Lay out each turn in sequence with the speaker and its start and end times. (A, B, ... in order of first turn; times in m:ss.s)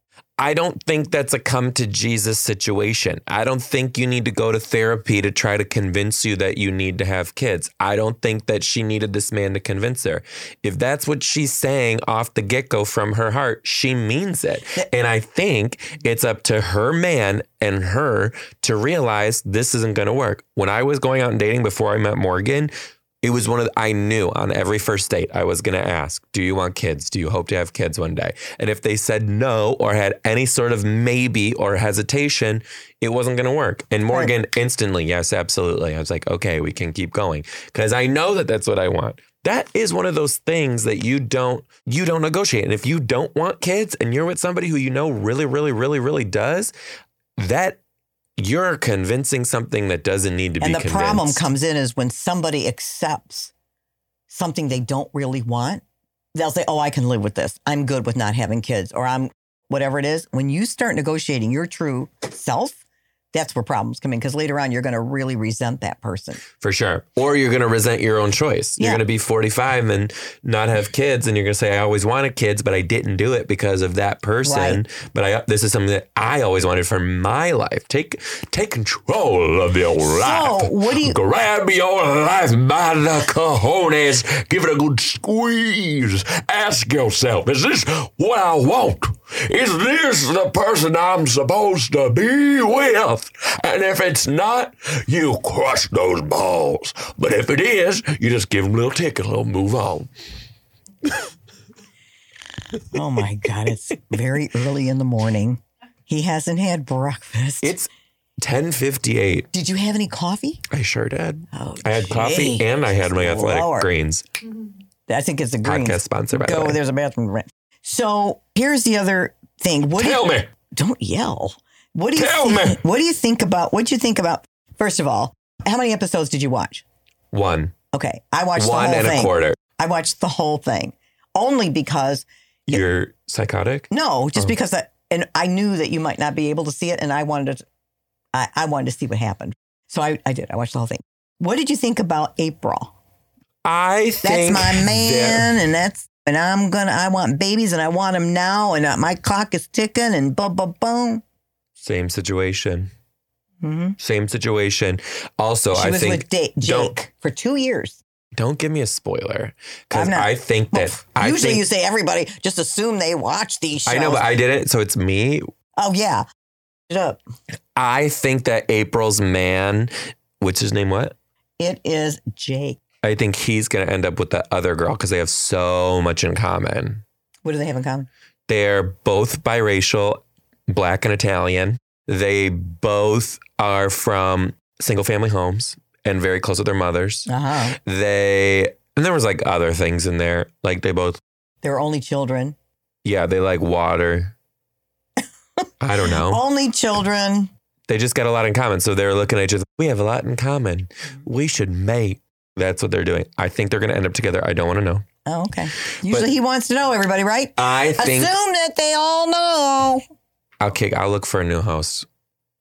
0:00.4-0:46.7 A
0:47.4-0:47.8 A
0:48.4-0:51.5 A
0:50.6-0:53.5 B
0:54.3-0:55.8 B
0:56.4-1:02.8 B
1:03.3-1:06.4 B
1:06.6-1:40.1 A
1:14.4-1:14.8 B
1:20.0-1:21.2 B
1:42.9-1:47.7 B
1:47.6-1:47.9 A
1:48.4-1:49.5 A
1:49.5-1:50.6 B
1:50.7-1:54.2 A
1:51.5-1:53.9 B
1:55.1-2:06.8 B
1:55.6-1:56.8 A
2:00.0-2:00.5 A
2:02.2-2:02.8 A
2:07.3-2:07.7 A
2:07.9-2:12.8 B
2:08.6-2:09.6 A
2:12.7-2:14.5 A
2:13.9-2:17.6 B
2:18.3-2:22.9 B
2:23.6-2:25.6 A
2:24.2-2:31.2 B
2:31.8-2:32.9 A
2:33.6-2:34.0 B
2:34.0-2:37.0 A
2:35.7-2:38.0 B
2:38.4-2:41.6 A
2:39.9-2:44.3 B
2:43.9-2:45.5 A
2:45.8-2:46.2 B
2:46.9-2:47.2 B
2:47.8-2:51.2 A
2:51.6-2:52.8 B
2:53.0-2:57.0 A
2:57.4-2:58.1 B
2:58.5-3:11.2 A
3:07.3-3:07.8 B
3:11.6-3:12.6 B
3:13.0-3:14.4 A
3:15.8-3:16.4 A
3:16.0-3:17.5 B
3:17.9-3:25.0 A
3:25.2-3:30.0 B
3:27.6-3:28.4 A
3:30.6-3:32.1 A